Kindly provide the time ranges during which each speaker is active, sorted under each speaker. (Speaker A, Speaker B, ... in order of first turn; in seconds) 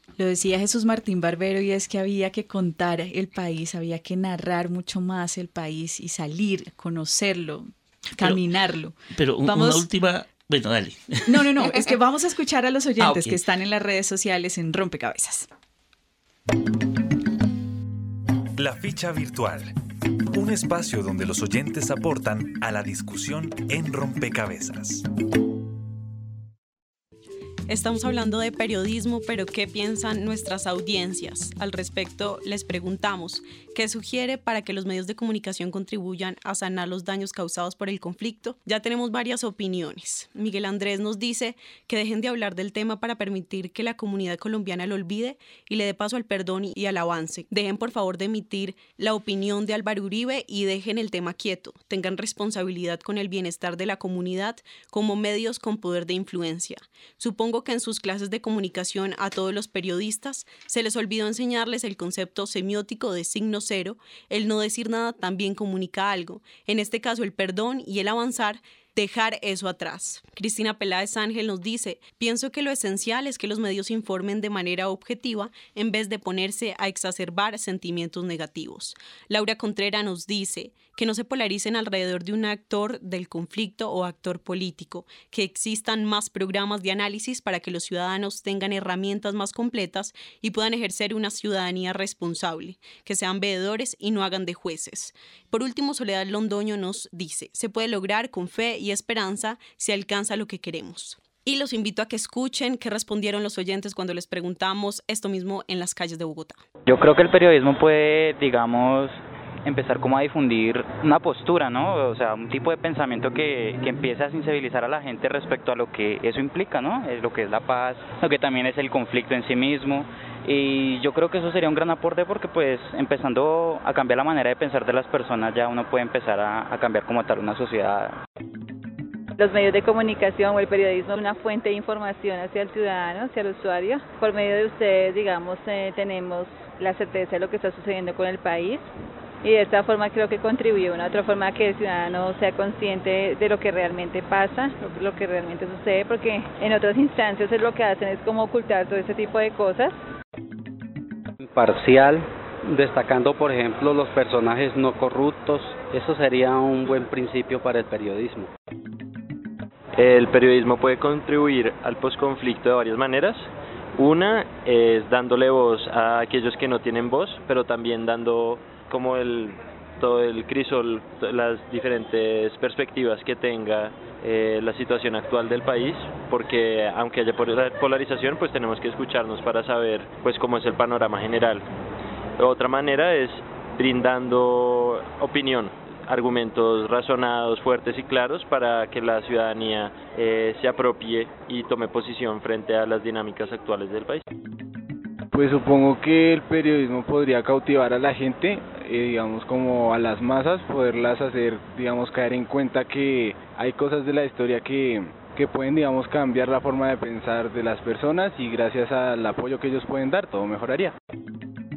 Speaker A: 0.2-9.9, 11.3-15.5
Speaker B: 8.2-8.4, 9.1-11.9, 13.0-13.4
Speaker C: 18.6-19.7, 20.3-25.0
Speaker D: 27.7-106.6
Speaker E: 106.8-128.2
Speaker F: 129.4-138.9, 139.4-149.9
Speaker G: 151.4-158.5
Speaker H: 159.9-181.6, 182.4-194.2
Speaker I: 195.3-210.9